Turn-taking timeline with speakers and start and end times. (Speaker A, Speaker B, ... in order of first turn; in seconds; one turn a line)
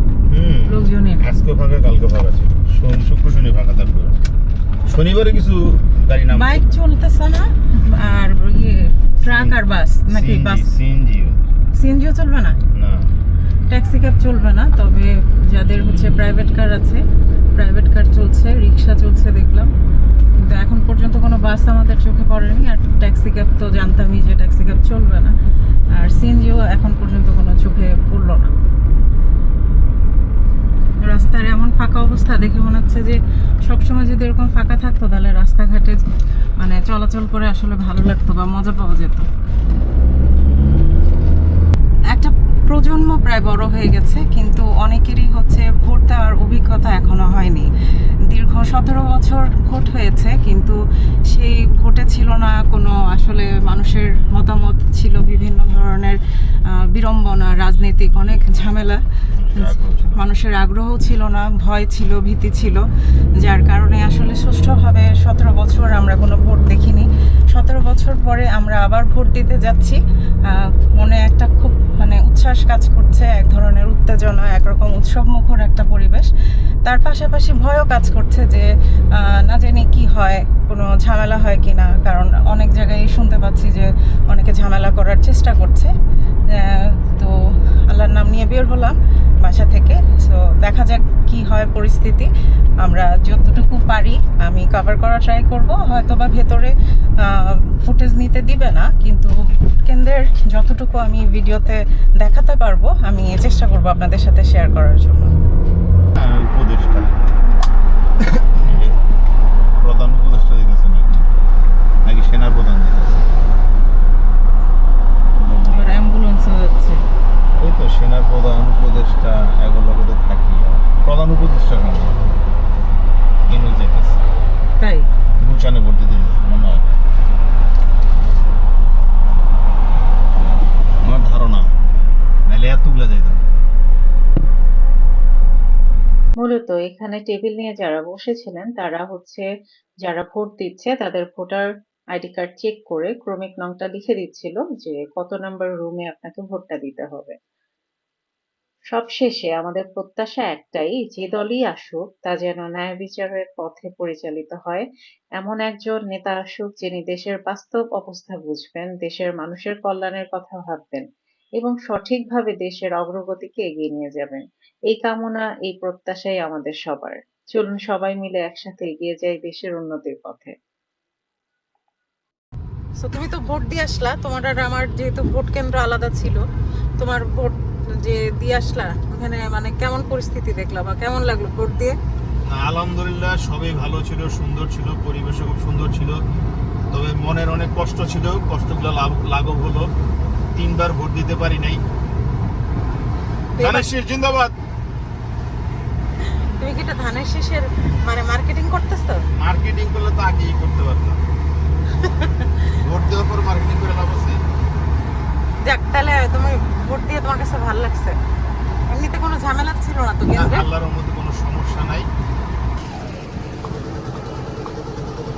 Speaker A: 0.3-4.2
Speaker B: 0.7-1.2
Speaker A: 4.8-6.6
Speaker B: 6.3-10.7
Speaker A: 9.2-9.6
Speaker A: 10.1-11.4
Speaker B: 11.7-12.6
Speaker A: 12.7-13.2
Speaker B: 13.7-17.0
Speaker B: 17.5-19.7
Speaker B: 20.4-25.3
Speaker B: 25.9-28.5
Speaker B: 31.0-36.0
Speaker B: 36.6-39.3
Speaker B: 42.1-47.7
Speaker B: 48.3-56.2
Speaker B: 56.7-59.0
Speaker A: 59.3-60.2
Speaker B: 59.5-62.8
Speaker B: 63.4-76.3
Speaker B: 76.8-85.9
Speaker B: 86.5-87.3
Speaker B: 87.9-92.3
Speaker B: 92.8-105.4
Speaker A: 106.1-107.2
Speaker A: 108.4-109.0
Speaker A: 109.8-111.3
Speaker A: 112.0-113.3
Speaker A: 115.4-115.9
Speaker B: 115.7-117.0
Speaker A: 117.6-122.2
Speaker A: 123.5-124.2
Speaker B: 124.8-125.1
Speaker A: 125.4-126.8
Speaker A: 131.0-131.7
Speaker A: 132.5-133.5
Speaker C: 136.4-139.5
Speaker C: 140.0-147.3
Speaker C: 148.9-154.9
Speaker C: 155.4-161.0
Speaker C: 161.6-170.5
Speaker B: 173.0-176.4
Speaker B: 177.0-182.0
Speaker A: 182.4-186.2
Speaker A: 186.9-191.8
Speaker B: 193.6-193.9
Speaker A: 193.6-194.5
Speaker B: 196.2-199.2
Speaker A: 199.3-201.2
Speaker B: 202.0-202.5
Speaker A: 202.8-204.4
Speaker B: 205.7-208.2
Speaker B: 208.9-210.7
Speaker A: 210.3-212.1